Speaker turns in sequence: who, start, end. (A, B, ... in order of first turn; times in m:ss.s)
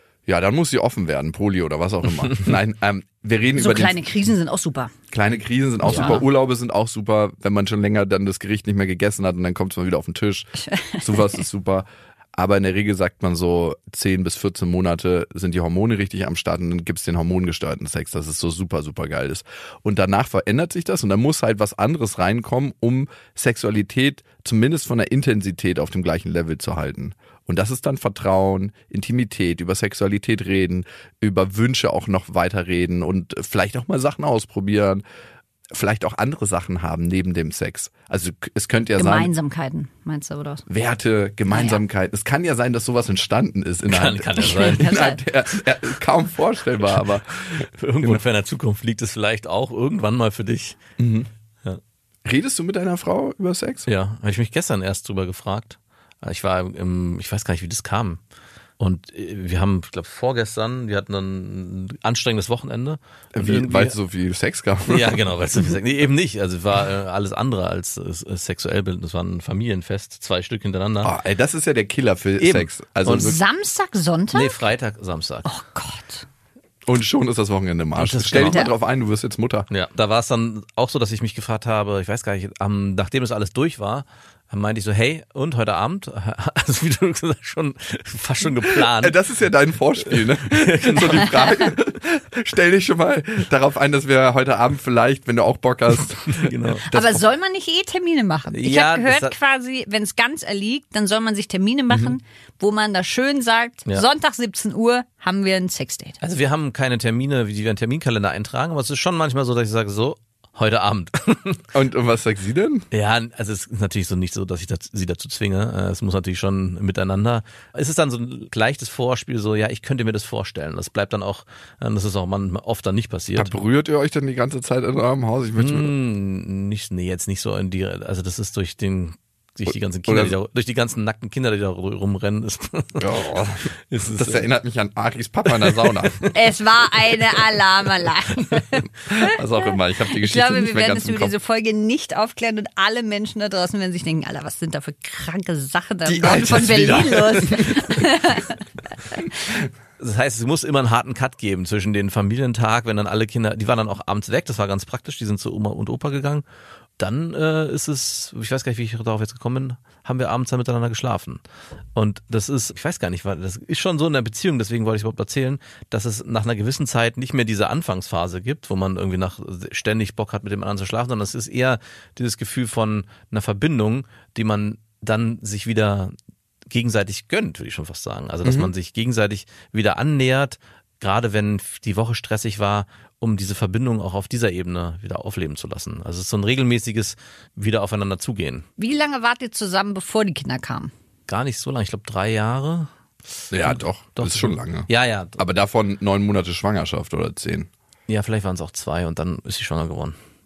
0:00.3-0:04.0 A
0:03.6-0:04.9 B
0:05.1-0:35.0 A
0:05.9-0:06.2 C
0:05.9-0:06.2 B
0:10.6-0:11.1 B
0:35.7-0:39.3 A
0:39.0-0:40.6 B
0:40.7-0:48.2 A
0:41.5-0:41.8 B
0:43.9-0:45.0 C
0:44.4-0:45.2 B
0:46.9-0:50.8 C
0:51.0-0:51.3 A
0:52.2-0:53.9 A
0:53.9-0:58.2 C
0:58.8-1:03.9 C
1:03.4-1:05.2 A
1:04.9-1:11.1 C
1:11.0-1:13.4 A
1:12.4-1:13.4 C
1:13.1-1:14.6 B
1:14.3-1:15.5 C
1:15.4-1:16.2 B
1:16.9-1:19.7 A
1:18.0-1:18.7 C
1:18.4-1:18.7 B
1:19.7-1:29.2 C
1:28.6-1:37.2 A
1:30.1-1:31.7 C
1:36.2-1:36.8 C
1:36.9-1:46.2 B
1:38.5-1:39.4 C
1:46.2-1:51.7 C
1:51.7-1:52.9 A
1:52.9-2:03.5 C
2:03.4-2:05.9 A
2:05.6-2:13.1 C
2:10.1-2:10.4 A
2:13.0-2:16.2 A
2:13.9-2:14.5 C
2:15.5-2:16.3 C
2:16.3-2:19.3 B
2:19.1-2:21.3 A
2:20.2-2:28.6 B
2:26.0-2:28.0 A
2:30.0-2:36.4 C
2:37.0-2:41.4 C
2:41.9-2:56.1 C
2:56.7-3:08.6 C
2:58.4-2:58.7 A
3:08.8-3:10.9 B
3:11.3-3:12.9 C
3:13.5-3:17.7 A
3:13.6-3:15.4 C
3:18.1-3:20.1 C